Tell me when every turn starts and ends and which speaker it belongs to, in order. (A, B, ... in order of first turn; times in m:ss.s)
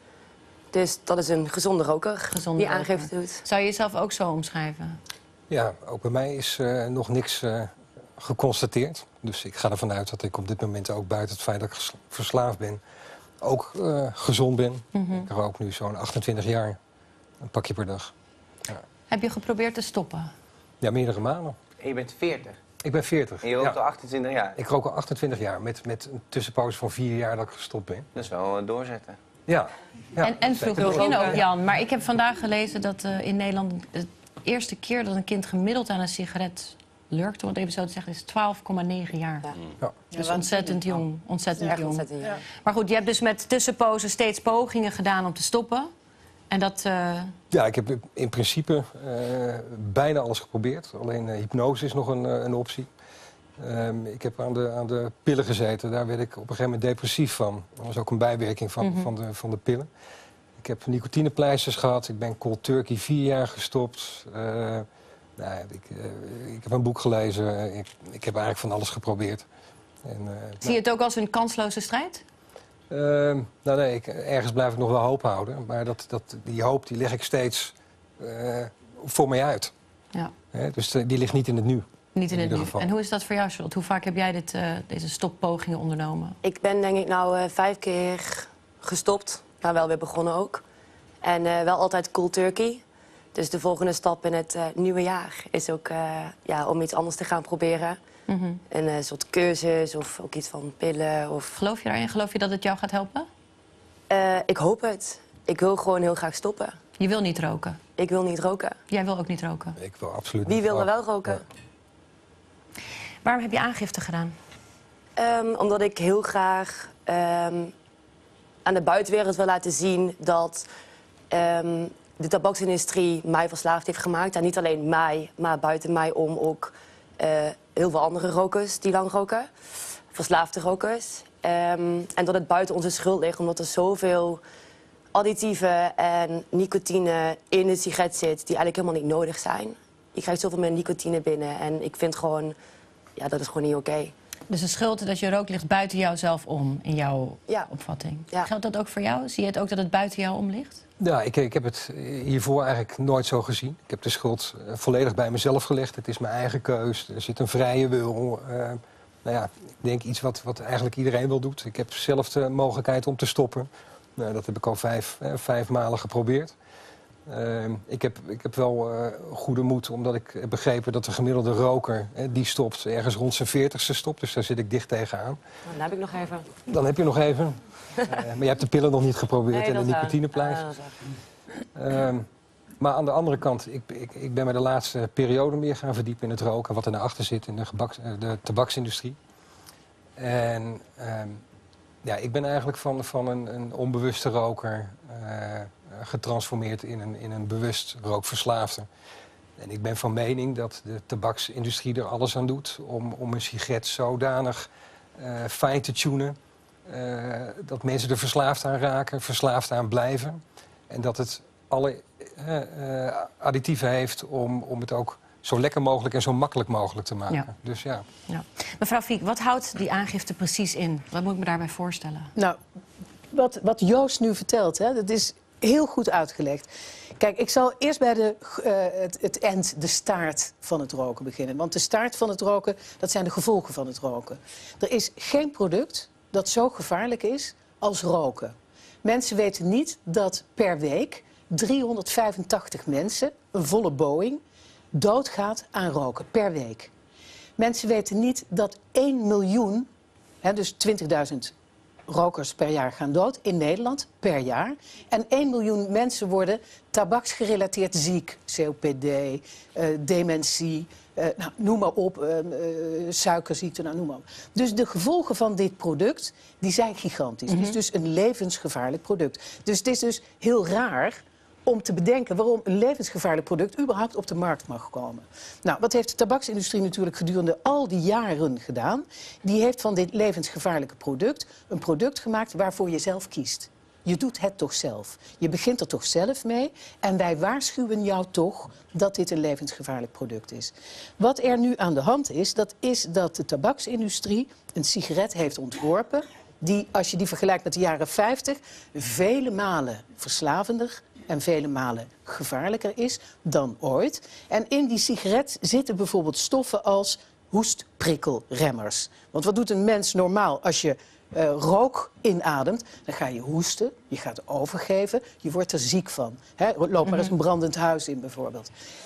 0:00.7-0:03.4 A
0:02.3-0:05.0 B
0:05.5-0:12.8 C
0:13.4-0:16.8 C
0:14.9-0:15.3 B
0:17.4-0:18.1 C
0:19.1-0:20.3 B
0:20.8-0:21.6 C
0:21.8-0:22.6 D
0:22.8-0:23.8 C
0:23.4-0:24.6 D
0:24.6-0:28.1 C
0:28.1-0:29.2 D
0:29.5-0:31.4 C
0:30.2-0:39.5 B
0:30.8-0:31.2 A
0:40.1-0:41.0 E
0:40.1-0:45.9 B
0:41.6-0:42.4 E
0:41.6-0:42.4 A
0:46.5-0:47.3 B
0:47.5-0:52.9 C
0:53.6-0:59.9 C
0:58.8-0:59.1 B
1:00.6-1:04.8 C
1:05.4-1:09.4 C
1:10.0-1:10.8 C
1:10.6-1:12.2 B
1:12.9-1:19.7 C
1:20.5-1:22.9 C
1:22.1-1:26.4 B
1:26.4-1:30.6 A
1:31.2-1:32.8 A
1:33.3-1:38.0 A
1:38.3-1:38.6 B
1:38.7-1:41.5 A
1:41.6-1:43.3 B
1:44.1-1:46.8 A
1:47.0-1:47.8 B
1:48.0-1:48.8 A
1:48.9-1:49.8 B
1:49.8-1:51.4 C
1:50.4-1:51.4 A
1:53.2-1:54.3 B
1:55.2-1:57.7 A
1:58.6-2:00.7 A
2:01.3-2:09.5 A
2:10.1-2:14.4 A
2:15.1-2:22.5 A
2:23.2-2:24.1 A
2:24.5-2:30.8 B
2:31.0-2:46.5 C
2:47.3-2:55.4 C
2:55.7-2:56.5 A
2:56.6-3:00.7 C
2:59.5-3:00.9 A
3:01.7-3:02.2 C
3:02.8-3:09.2 C
3:10.2-3:11.4 C
3:12.0-3:18.9 C
3:19.6-3:26.4 C
3:26.9-3:38.0 C
3:38.3-3:42.3 B
3:43.3-4:04.4 E
4:04.9-4:06.9 E
4:07.6-4:09.9 E
4:10.4-4:11.5 E
4:12.1-5:18.7 E
4:27.5-4:27.7 B